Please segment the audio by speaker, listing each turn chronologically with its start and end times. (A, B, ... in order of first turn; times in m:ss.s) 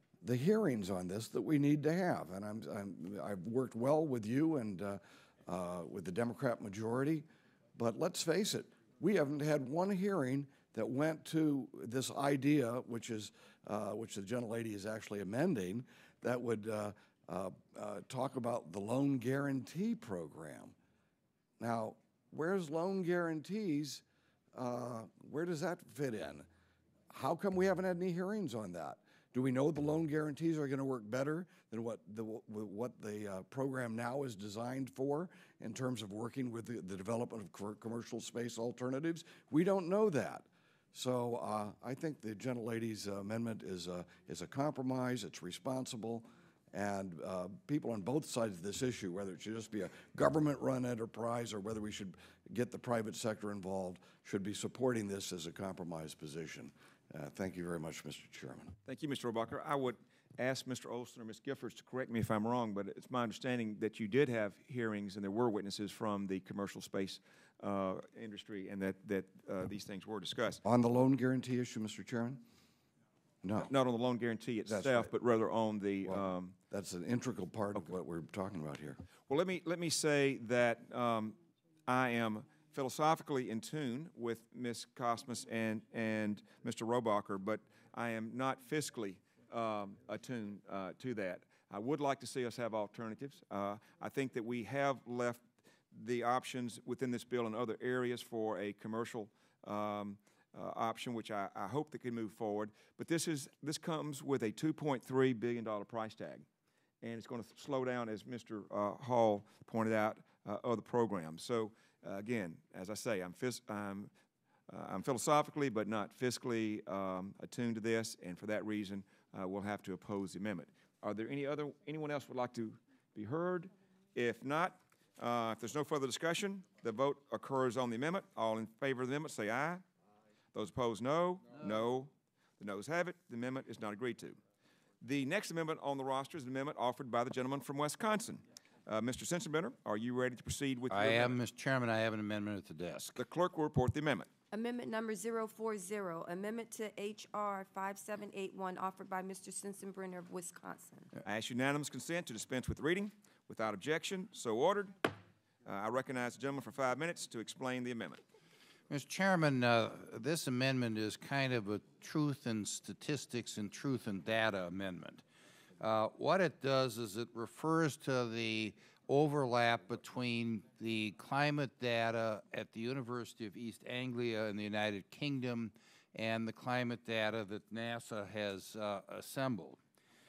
0:00.2-0:20.7 A
0:21.6-0:24.0 A
0:24.5-0:26.5 A
0:27.1-0:58.7 A
0:58.8-1:10.6 B
1:10.6-1:12.4 A
1:13.4-1:13.7 A
1:13.6-1:16.6 B
1:14.7-1:15.1 A
1:16.0-1:19.0 A
1:19.3-1:46.4 B
1:47.0-1:54.1 B
1:54.7-2:09.8 B
2:10.5-2:14.4 B
2:15.0-2:21.4 B
2:20.9-2:23.2 C
2:23.2-2:24.3 B
2:24.5-2:31.1 D
2:31.2-2:35.1 B
2:35.6-2:38.2 B
2:38.9-2:45.2 C
2:45.8-2:59.8 C